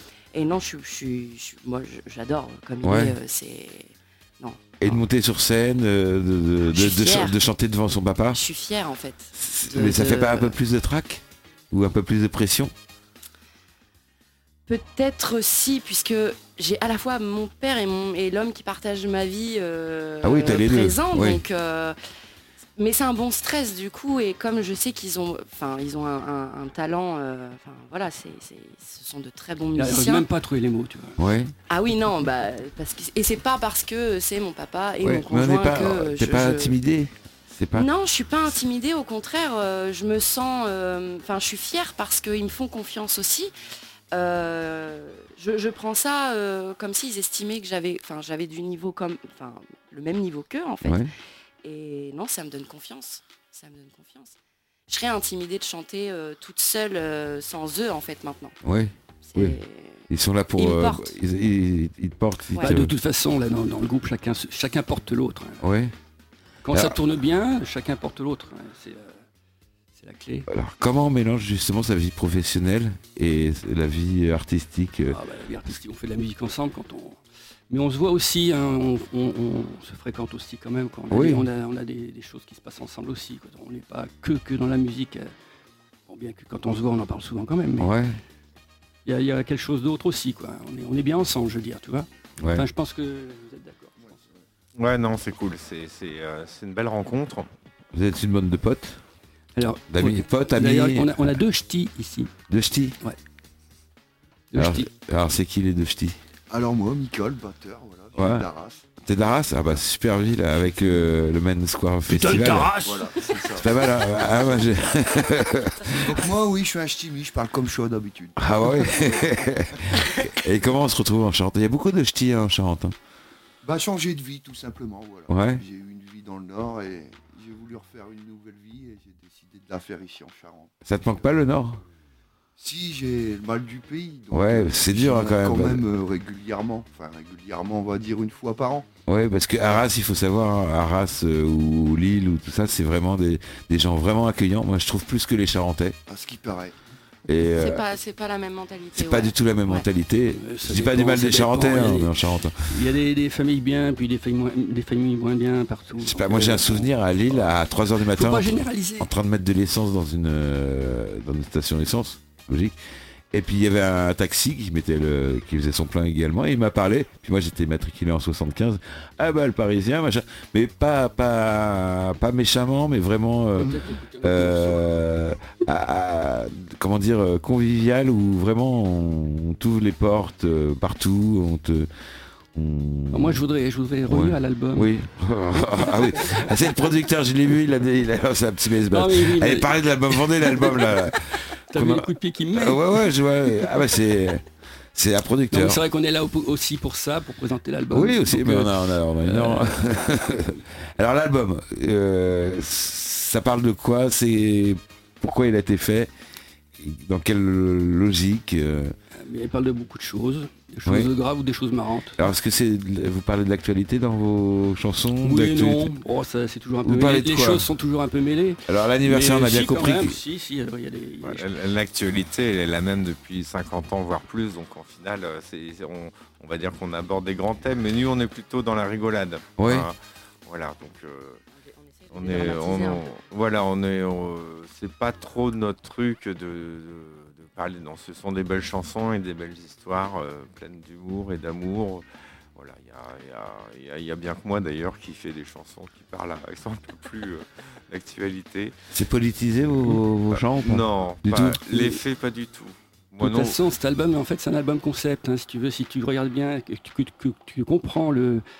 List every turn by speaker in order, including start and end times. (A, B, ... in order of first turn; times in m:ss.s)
0:00.3-0:05.0 A
0:02.8-0:03.2 B
0:04.8-0:08.4 B
0:06.7-0:07.4 A
0:08.3-0:10.6 A
0:09.3-0:12.7 B
0:14.7-0:22.0 A
0:20.2-0:21.4 B
0:22.8-0:30.2 A
0:29.8-0:31.2 C
0:31.2-0:31.5 B
0:31.7-0:36.7 A
0:35.0-0:37.9 B
0:37.7-0:43.5 A
0:44.1-0:51.1 A
0:50.8-0:51.1 B
0:51.6-0:54.4 A
0:54.9-0:58.6 A
0:58.6-0:59.6 B
0:59.2-1:01.1 A
1:00.1-1:02.9 B
1:02.6-1:05.6 C
1:05.6-1:05.9 B
1:06.6-1:09.2 C
1:06.7-1:07.0 B
1:09.9-1:10.5 C
1:10.5-1:15.2 B
1:15.1-1:17.2 C
1:17.7-1:25.3 C
1:21.1-1:21.5 B
1:26.1-1:27.9 C
1:27.8-1:28.2 B
1:29.0-1:34.2 C
1:32.4-1:32.7 B
1:34.8-1:37.5 D
1:37.9-1:39.0 B
1:39.6-1:42.3 C
1:39.9-1:41.4 B
1:42.5-1:43.0 B
1:44.5-1:44.9 C
1:44.5-1:46.2 B
1:46.5-1:48.9 E
1:48.1-1:48.5 B
1:49.0-1:52.8 B
1:52.1-1:53.3 C
1:52.8-1:53.7 E
1:53.6-1:56.2 B
1:55.9-1:59.3 E
1:58.4-2:03.0 B
2:03.6-2:10.7 E
2:05.3-2:05.6 B
2:10.8-2:11.8 B
2:12.6-2:18.9 E
2:14.3-2:15.9 B
2:19.1-2:26.0 B
2:26.1-2:26.8 E
2:27.3-2:27.8 B
2:27.6-2:29.8 A
2:28.9-2:32.7 B
2:30.4-2:37.5 C
2:36.0-2:42.7 B
2:38.1-2:39.1 C
2:43.3-3:01.9 B
2:53.6-2:54.9 C
3:02.5-3:03.4 B
3:03.1-3:04.9 C
3:04.1-3:14.4 B
3:05.7-3:06.5 C
3:08.9-3:13.8 C
3:14.9-3:15.8 B
3:15.5-3:20.1 C
3:17.9-3:26.1 B
3:26.8-3:28.9 B
3:29.2-3:32.2 C
3:30.8-3:31.1 B
3:32.2-3:35.9 B
3:35.2-3:41.4 C
3:36.8-3:37.7 B
3:38.7-3:40.2 B
3:41.2-3:51.4 D
3:49.6-3:49.9 B
3:51.6-3:53.1 A
3:52.1-4:08.8 D
4:08.9-4:12.0 B
4:10.3-4:13.6 D
4:13.2-4:18.4 C